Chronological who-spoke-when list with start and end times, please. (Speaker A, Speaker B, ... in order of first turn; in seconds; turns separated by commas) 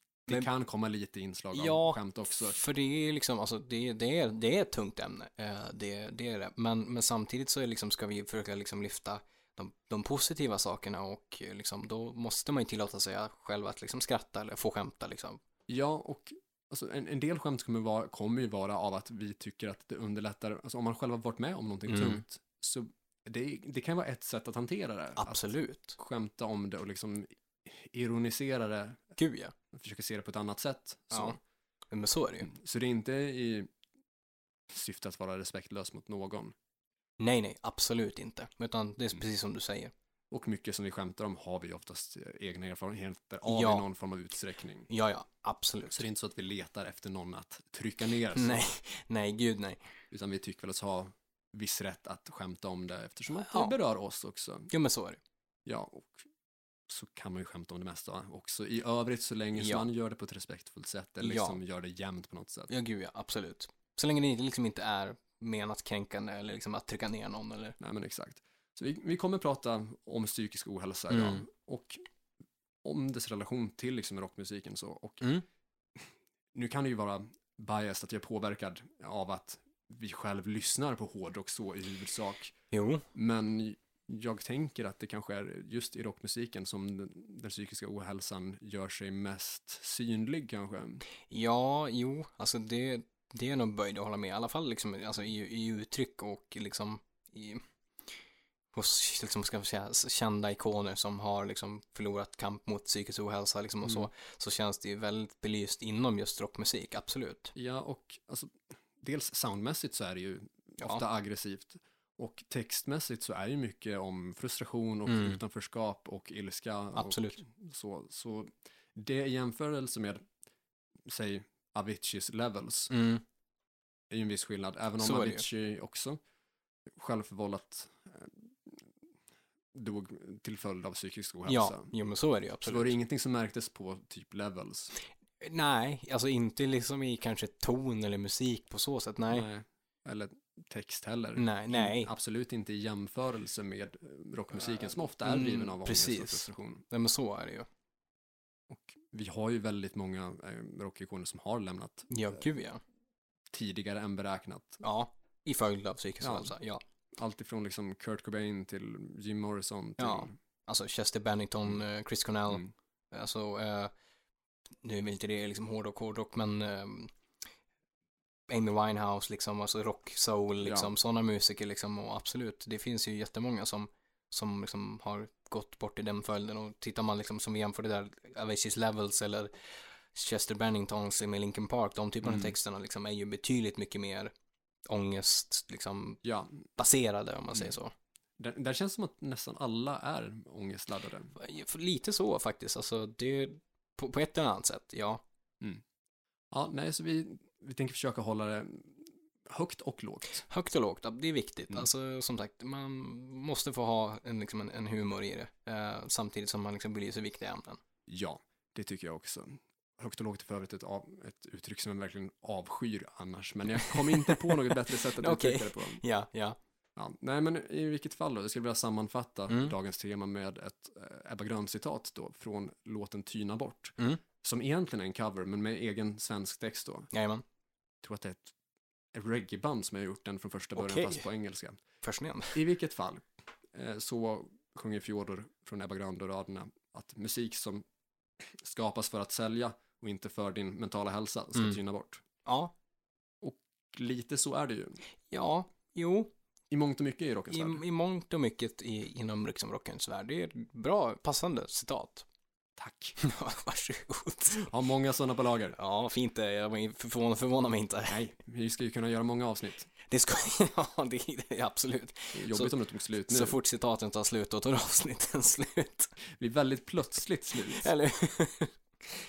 Speaker A: 0.3-2.6, Speaker B: 1.5-15.4, Speaker A: 15.7-25.4, Speaker B: 21.9-22.2, Speaker B: 25.2-26.0, Speaker A: 26.0-29.0, Speaker B: 29.2-29.5, Speaker A: 29.7-31.4, Speaker B: 31.1-31.4, Speaker B: 31.9-32.5, Speaker A: 32.4-33.7, Speaker A: 34.7-36.5, Speaker B: 37.2-39.9, Speaker A: 40.3-44.9, Speaker B: 43.5-43.9, Speaker B: 44.9-46.0, Speaker A: 45.9-48.6, Speaker B: 48.3-49.8, Speaker A: 50.1-54.7, Speaker B: 53.4-53.7, Speaker B: 54.7-55.2, Speaker A: 55.6-56.2, Speaker A: 56.9-62.7, Speaker B: 59.5-59.9, Speaker B: 61.2-61.6, Speaker B: 62.7-67.8, Speaker A: 67.8-72.0, Speaker B: 71.1-71.4, Speaker A: 72.8-75.2, Speaker A: 75.9-82.5, Speaker B: 82.7-83.0, Speaker A: 83.1-91.0, Speaker B: 91.3-97.6, Speaker B: 98.7-107.5, Speaker A: 103.8-104.1, Speaker A: 107.5-120.2, Speaker B: 115.1-115.4, Speaker B: 116.9-117.4, Speaker A: 121.0-122.9, Speaker B: 122.9-123.2, Speaker A: 124.1-126.2, Speaker B: 125.0-125.4, Speaker A: 126.9-128.9, Speaker A: 129.7-131.9, Speaker B: 131.5-132.9, Speaker A: 132.7-134.9, Speaker B: 135.4-139.5, Speaker A: 139.3-146.8, Speaker B: 141.4-142.1, Speaker B: 145.2-147.7, Speaker A: 148.7-152.1, Speaker B: 152.1-152.8, Speaker A: 153.5-154.8, Speaker B: 154.8-156.8, Speaker A: 156.2-156.5, Speaker A: 157.1-160.3, Speaker B: 160.0-163.9, Speaker B: 164.8-167.1, Speaker B: 168.5-179.5, Speaker A: 170.6-170.9, Speaker B: 180.1-184.3, Speaker A: 182.2-182.5, Speaker B: 184.8-186.2, Speaker A: 186.2-186.7, Speaker B: 186.8-187.9, Speaker A: 188.4-191.3, Speaker B: 191.3-195.2, Speaker A: 196.5-200.4, Speaker B: 200.5-207.8, Speaker A: 208.1-216.0, Speaker B: 214.1-216.6, Speaker A: 216.9-227.1, Speaker B: 219.5-219.7, Speaker B: 227.1-227.4, Speaker A: 228.0-228.5, Speaker A: 229.1-231.8, Speaker B: 230.8-231.2, Speaker B: 232.0-232.6, Speaker A: 232.5-237.8, Speaker A: 238.4-242.2, Speaker B: 242.4-242.7, Speaker A: 243.4-245.0, Speaker B: 245.3-246.3, Speaker A: 246.7-247.8, Speaker B: 247.5-252.2, Speaker A: 252.8-253.2, Speaker B: 253.2-254.7, Speaker A: 254.5-255.7, Speaker B: 255.7-258.2, Speaker A: 258.1-259.9, Speaker B: 260.1-262.7, Speaker A: 262.3-263.6, Speaker B: 263.3-266.1, Speaker A: 266.4-267.9, Speaker B: 267.7-268.7